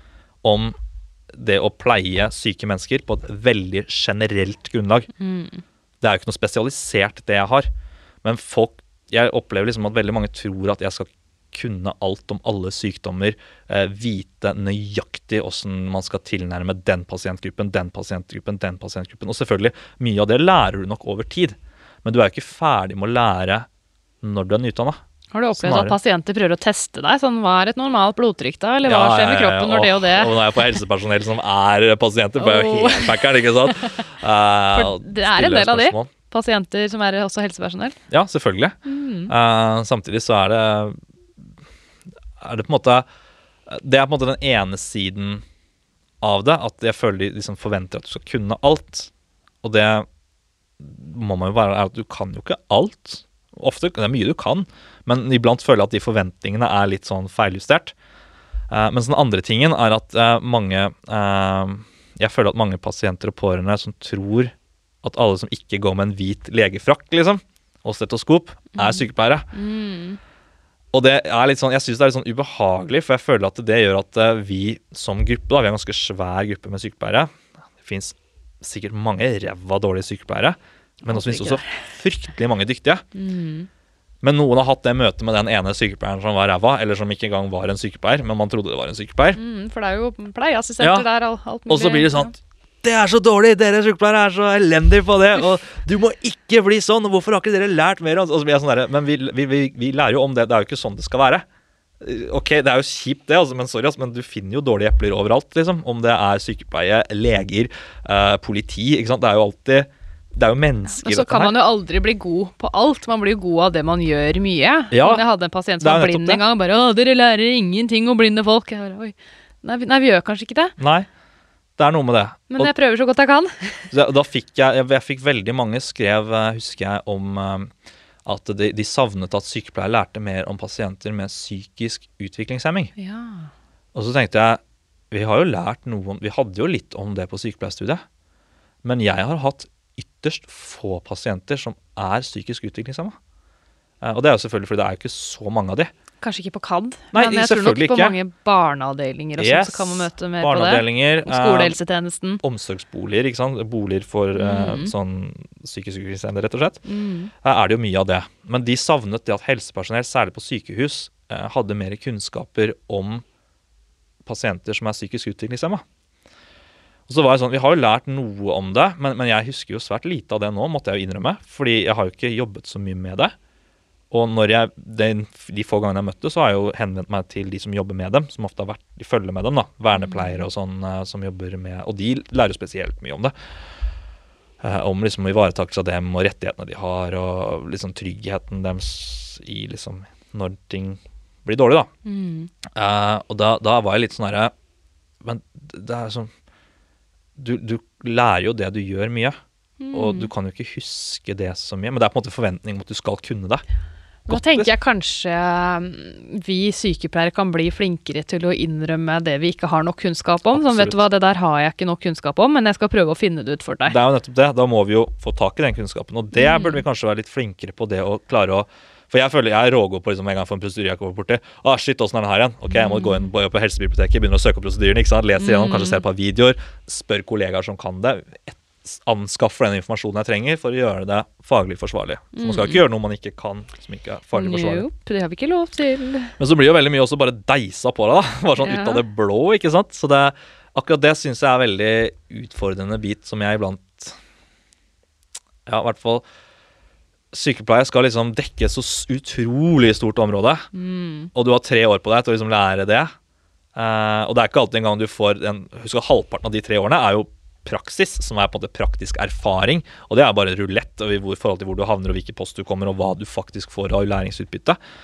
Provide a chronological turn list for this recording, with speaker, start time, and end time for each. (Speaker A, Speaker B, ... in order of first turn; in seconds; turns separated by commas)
Speaker A: 0.4-0.8, Speaker A: 1.3-5.1, Speaker B: 5.2-5.6, Speaker A: 6.0-7.7, Speaker A: 8.2-23.7, Speaker A: 24.2-25.0, Speaker B: 25.3-30.8, Speaker A: 25.6-26.0, Speaker A: 28.9-36.1, Speaker B: 32.4-34.0, Speaker B: 34.7-38.0, Speaker A: 38.1-38.8, Speaker B: 38.9-39.3, Speaker A: 39.3-41.0, Speaker A: 42.4-43.1, Speaker A: 43.7-45.4, Speaker A: 46.2-49.1, Speaker A: 49.6-50.1, Speaker A: 50.8-57.9, Speaker A: 58.7-69.5, Speaker B: 68.8-70.2, Speaker A: 70.9-77.3, Speaker A: 77.8-83.0, Speaker B: 81.0-81.8, Speaker B: 83.2-83.7, Speaker A: 84.2-89.4, Speaker B: 89.3-92.3, Speaker A: 90.8-91.1, Speaker A: 91.7-101.5, Speaker A: 102.0-111.5, Speaker B: 111.0-120.8, Speaker A: 114.9-115.2, Speaker A: 115.8-116.4, Speaker A: 120.8-121.1, Speaker A: 121.8-122.7, Speaker B: 122.5-123.9, Speaker A: 123.9-127.7, Speaker A: 128.2-132.9, Speaker B: 133.0-133.5, Speaker A: 133.9-138.0, Speaker A: 138.8-143.2, Speaker A: 144.0-145.9, Speaker B: 146.2-152.4, Speaker A: 147.1-148.2, Speaker A: 149.4-151.8, Speaker A: 152.4-156.8, Speaker B: 154.3-154.9, Speaker B: 156.9-157.3, Speaker A: 157.4-163.2, Speaker A: 164.3-165.8, Speaker A: 167.1-173.3, Speaker A: 174.1-183.3, Speaker B: 180.0-180.4, Speaker A: 184.6-191.9, Speaker B: 192.1-192.5, Speaker A: 192.7-194.5, Speaker A: 195.2-196.3, Speaker A: 197.4-199.4, Speaker B: 199.8-200.3, Speaker A: 199.9-203.6, Speaker B: 204.3-214.0, Speaker A: 204.3-204.7, Speaker A: 210.5-211.0, Speaker A: 213.9-234.9, Speaker B: 216.3-216.8, Speaker B: 222.7-223.3, Speaker B: 225.4-226.0, Speaker B: 232.3-232.8, Speaker B: 234.3-236.3, Speaker A: 236.4-244.2, Speaker B: 238.6-239.0, Speaker A: 245.7-246.2, Speaker A: 247.3-250.7, Speaker B: 250.7-251.3, Speaker A: 251.3-253.1, Speaker A: 253.8-264.8